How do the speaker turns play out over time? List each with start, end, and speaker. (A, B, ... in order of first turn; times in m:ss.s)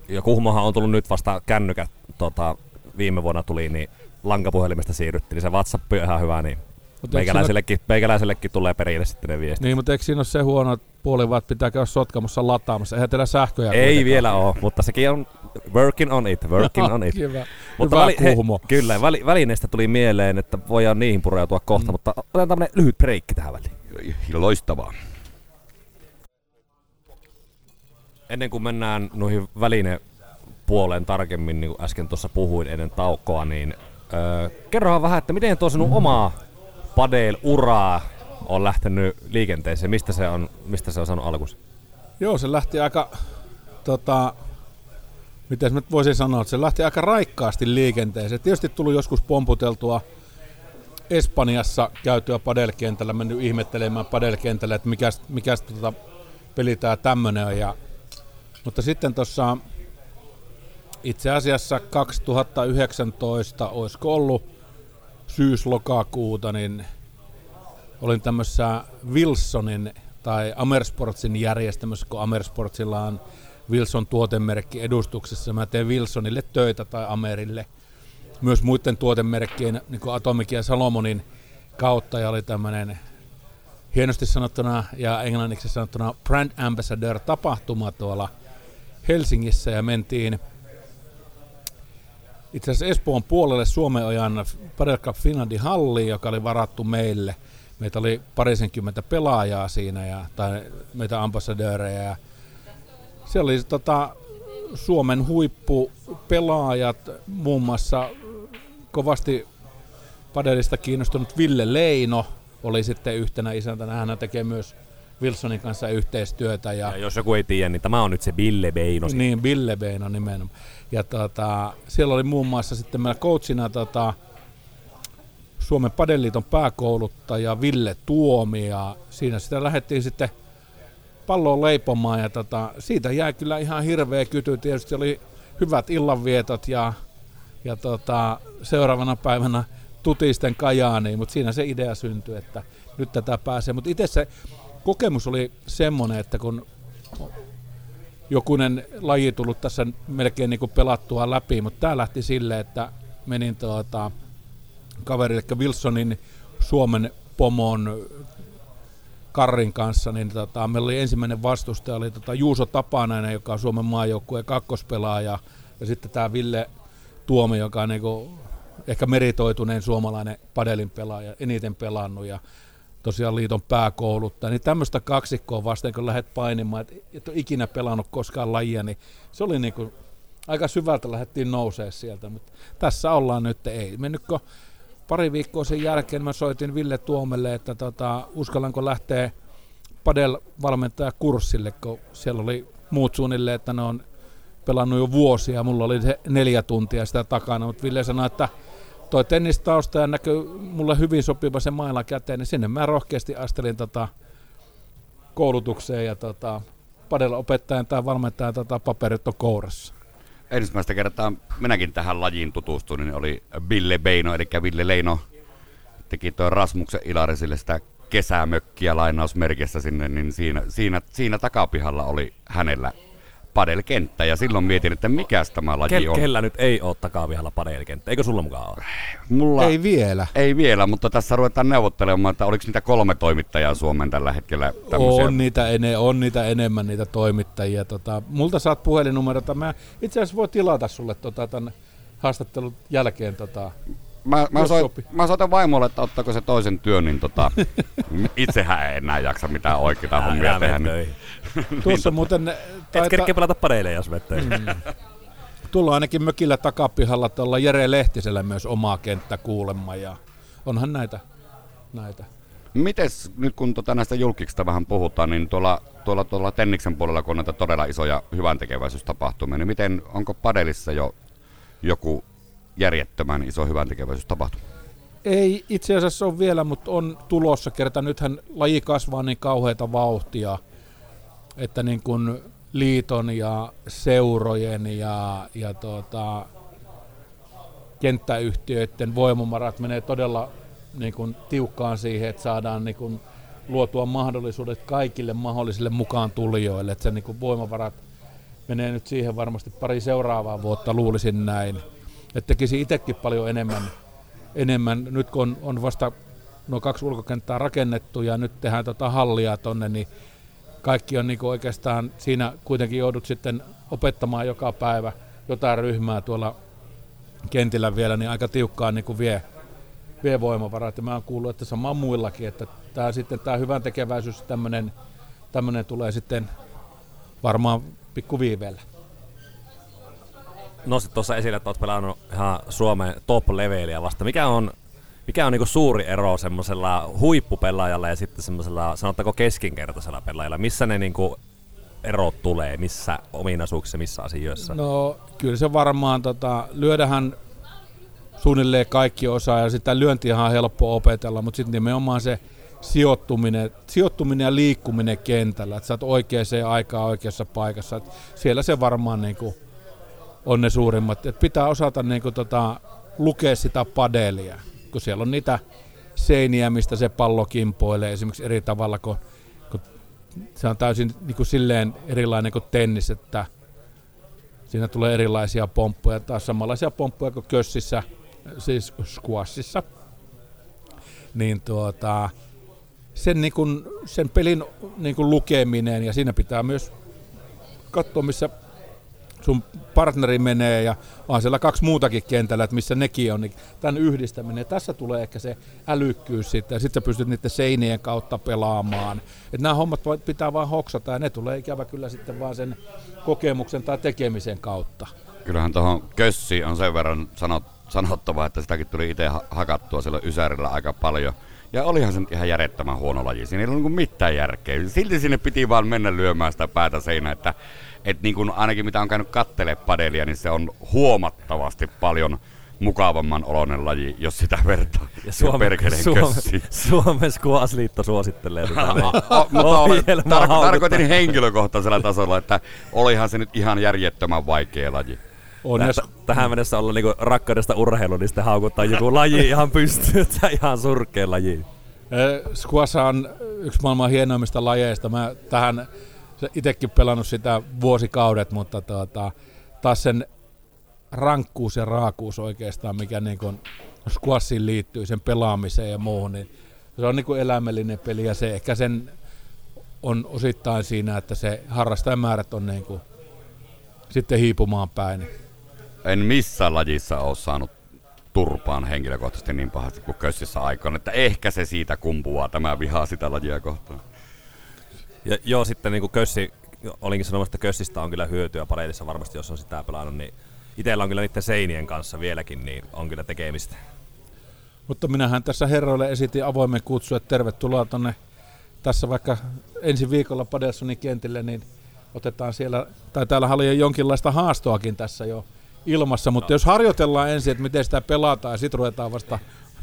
0:00.1-0:09.6 A
0:07.0-0:07.5 B
0:09.6-0:14.3 B
0:13.7-0:23.8 A
0:16.6-0:18.6 B
0:23.9-0:24.9 C
0:28.3-0:30.0 A
0:30.6-0:36.4 A
0:36.9-0:41.6 A
0:42.2-0:43.1 B
0:43.8-0:44.4 B
0:45.5-0:50.0 B
0:51.1-0:55.9 B
0:56.6-0:57.7 B
0:58.6-0:59.6 B
1:01.0-1:04.4 B
1:05.3-1:06.9 B
1:08.0-1:17.7 B
1:18.4-1:21.2 B
1:21.8-1:23.0 B
1:23.9-1:28.3 B
1:29.0-1:30.4 B
1:32.5-1:42.2 B
1:43.3-1:49.4 B
1:50.3-1:56.9 B
1:56.9-1:59.2 A
1:59.0-2:04.1 B
2:05.6-2:10.3 B
2:11.3-2:17.0 B
2:17.6-2:24.3 B
2:24.8-2:26.6 B
2:28.3-2:34.1 B
2:35.0-2:38.3 B
2:39.3-2:46.7 B
2:47.3-2:52.4 B
2:53.0-2:59.9 B
3:00.5-3:04.4 B
3:05.1-3:09.3 B
3:10.0-3:14.0 B
3:14.6-3:18.5 B
3:19.1-3:24.1 B
3:25.4-3:29.9 B
3:30.5-3:35.2 C
3:36.1-3:43.0 C
3:43.5-3:46.3 C
3:45.9-3:48.8 A
3:49.3-3:49.7 C
3:49.6-3:50.3 B
3:50.3-3:55.4 C
3:54.9-4:03.7 B
4:04.2-4:11.0 C
4:04.6-4:05.0 B
4:10.2-4:11.2 A
4:11.5-4:12.2 C
4:11.8-4:13.3 B
4:12.9-4:14.8 A
4:14.4-4:14.8 B
4:15.7-4:21.2 B
4:21.9-4:22.3 B
4:22.7-4:31.1 C
4:31.8-4:32.2 C
4:32.8-4:34.6 C
4:35.2-4:40.6 B
4:41.6-4:46.5 B
4:48.0-4:58.0 B
4:58.7-5:01.8 B
5:02.3-5:03.9 B
5:04.6-5:06.1 B
5:06.7-5:10.1 B
5:10.8-5:16.6 B
5:17.5-5:19.4 B
5:20.2-5:24.9 B
5:25.5-5:26.5 B
5:27.4-5:28.8 B
5:30.8-5:34.7 A
5:35.3-5:41.4 A
5:42.0-5:44.8 A
5:44.6-5:47.4 B
5:48.4-5:59.6 B
6:00.4-6:05.6 B
6:06.2-6:09.8 B
6:10.6-6:13.5 B
6:14.7-6:19.9 B
6:21.3-6:22.3 B
6:23.2-6:26.9 B
6:27.9-6:28.5 B
6:29.4-6:45.1 B
6:45.4-6:57.5 C
6:58.0-7:06.7 C
7:05.2-7:11.3 A
7:08.7-7:15.2 C
7:15.6-7:16.1 B
7:15.8-7:21.6 A
7:22.1-7:25.9 B
7:26.4-7:30.3 B
7:31.1-7:39.1 B
7:40.0-7:43.0 B
7:44.1-7:45.3 B
7:46.0-7:47.7 C
7:48.3-7:54.0 C
7:55.2-8:03.7 A
8:04.9-8:08.2 B
8:08.8-8:19.4 B